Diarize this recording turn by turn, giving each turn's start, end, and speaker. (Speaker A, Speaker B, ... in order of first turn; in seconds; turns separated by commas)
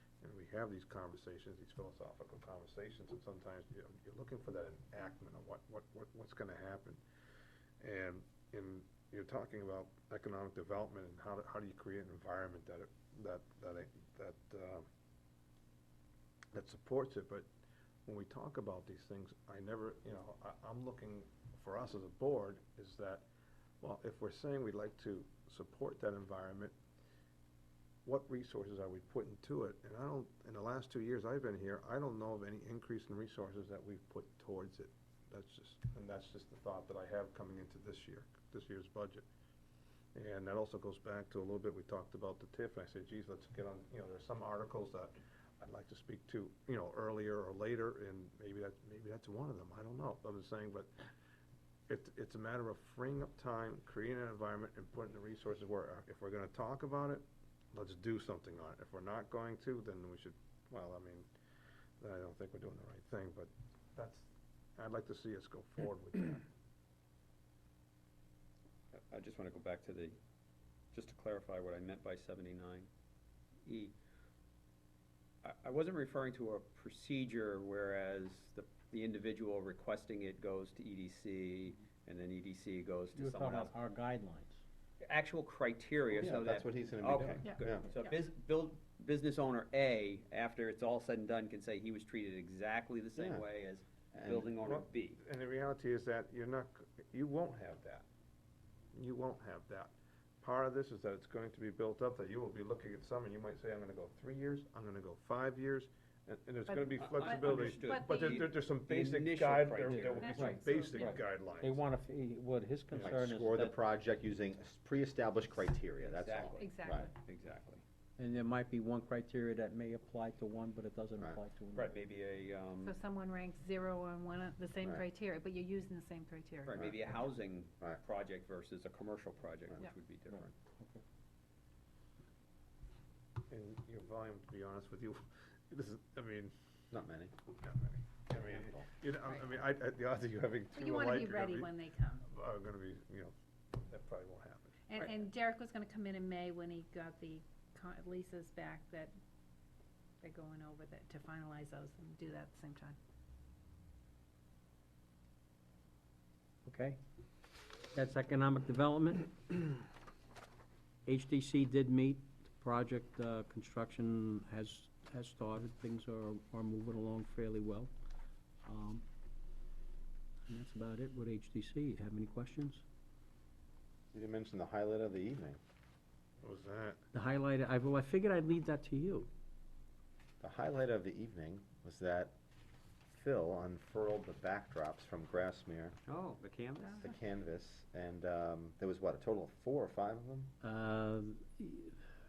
Speaker A: 0.2-7.0, Speaker A: 7.8-14.8, Speaker A: 16.5-17.5, Speaker A: 18.1-23.3, Speaker A: 23.8-26.8, Speaker A: 28.1-39.2, Speaker A: 40.1-50.9, Speaker A: 51.9-61.3, Speaker A: 62.0-66.5, Speaker B: 68.9-70.2, Speaker B: 70.9-72.9, Speaker B: 73.7-73.9, Speaker B: 75.4-83.7, Speaker C: 83.2-84.6, Speaker B: 85.0-95.2, Speaker D: 86.2-87.9, Speaker D: 93.2-93.5, Speaker D: 94.1-94.5, Speaker A: 94.6-98.1, Speaker A: 98.9-111.9, Speaker E: 106.7-108.5, Speaker B: 107.0-110.3, Speaker C: 109.8-113.8, Speaker E: 110.2-111.2, Speaker D: 113.0-117.1, Speaker B: 116.0-117.8, Speaker E: 116.6-117.1, Speaker C: 118.2-121.9, Speaker B: 121.7-123.0, Speaker E: 122.8-126.8, Speaker B: 126.6-130.5, Speaker D: 126.8-127.2, Speaker C: 130.3-131.0, Speaker A: 133.5-136.5, Speaker D: 136.9-137.3, Speaker A: 137.6-145.1, Speaker D: 138.5-138.9, Speaker E: 140.7-142.2, Speaker E: 144.9-149.1, Speaker E: 150.2-153.0, Speaker C: 156.7-157.0, Speaker C: 157.9-159.9, Speaker C: 161.1-167.9, Speaker C: 168.6-169.0, Speaker C: 170.5-172.8, Speaker D: 174.1-175.6, Speaker A: 176.4-177.0, Speaker C: 177.1-179.3, Speaker D: 180.4-182.3, Speaker D: 183.1-186.0, Speaker B: 186.1-187.1, Speaker D: 187.0-190.5, Speaker C: 190.6-192.0